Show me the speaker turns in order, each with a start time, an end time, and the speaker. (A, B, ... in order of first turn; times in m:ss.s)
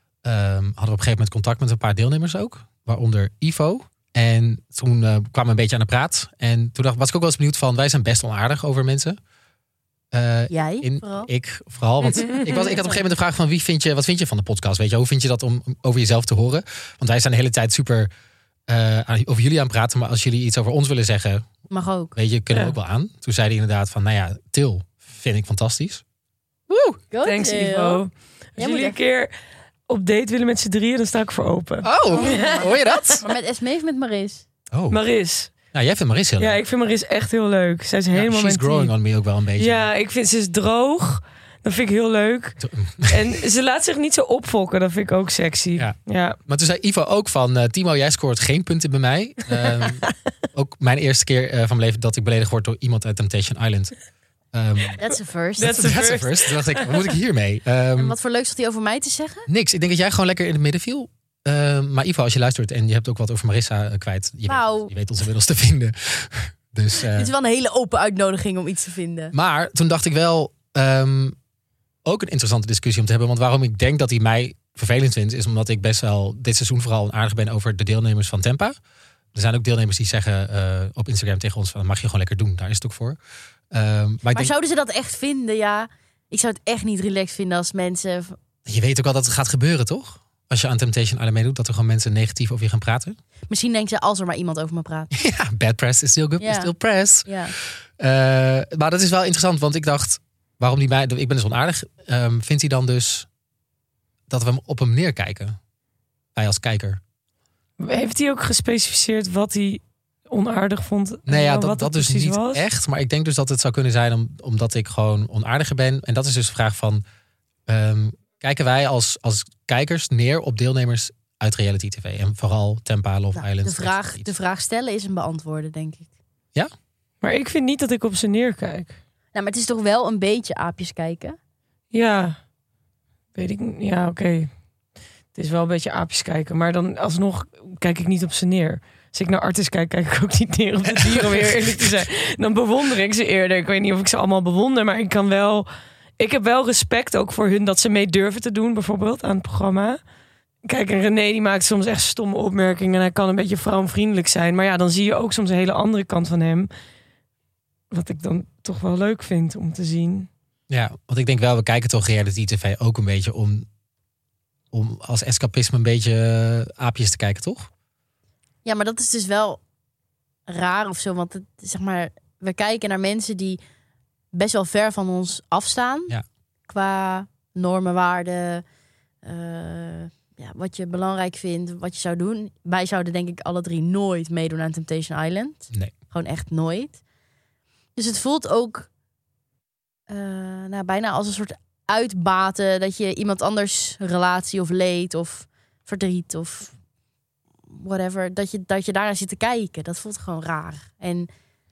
0:00.2-0:09.2 A
0:10.1-0:18.1 A
0:10.5-0:11.3 B
0:12.0-0:12.6 C
0:12.3-0:13.0 B
0:18.7-0:21.5 A
0:21.7-0:22.2 B
0:22.2-0:26.0 A
0:26.7-0:28.0 B
0:27.2-0:29.3 C
0:28.6-0:29.0 B
0:29.9-0:33.2 C
0:31.8-0:33.2 A
0:32.2-0:32.6 B
0:33.2-0:34.4 B
0:34.7-0:35.0 A
0:34.9-0:35.5 C
0:35.7-0:36.6 A
0:36.4-0:38.9 C
0:38.1-0:39.9 A
0:39.6-0:46.4 C
0:42.6-0:43.3 A
0:46.5-0:53.9 A
0:49.8-0:50.1 C
0:54.5-0:55.0 A
0:55.0-0:55.8 B
0:55.6-0:57.1 C
0:55.6-0:58.2 A
0:58.0-0:59.5 B
0:59.5-1:07.3 A
1:04.5-1:04.9 B
1:07.1-1:09.3 B
1:09.3-1:11.4 A
1:12.0-1:18.8 A
1:19.3-1:23.2 A
1:23.7-1:24.5 A
1:24.3-1:28.4 B
1:28.7-1:33.2 A
1:33.5-1:35.1 B
1:35.1-1:43.3 A
1:36.4-1:36.7 B
1:37.2-1:37.5 B
1:44.3-1:45.6 A
1:46.4-1:47.0 A
1:47.8-1:52.6 C
1:51.3-1:57.0 A
1:57.7-2:04.3 A
2:03.4-2:06.1 B
2:07.2-2:09.0 C
2:09.3-2:11.4 B
2:11.9-2:12.4 C
2:13.4-2:14.5 C
2:15.4-2:25.7 C
2:21.0-2:21.9 A
2:26.2-2:30.0 C
2:30.7-2:36.7 C
2:37.9-2:40.3 C
2:40.7-2:43.7 A
2:44.7-2:47.7 A
2:48.6-2:49.6 B
2:50.5-2:53.6 B
2:54.3-2:56.2 B
2:56.7-2:58.6 B
2:59.2-3:07.0 B
3:08.0-3:08.9 B
3:10.1-3:16.7 B
3:17.7-3:21.3 B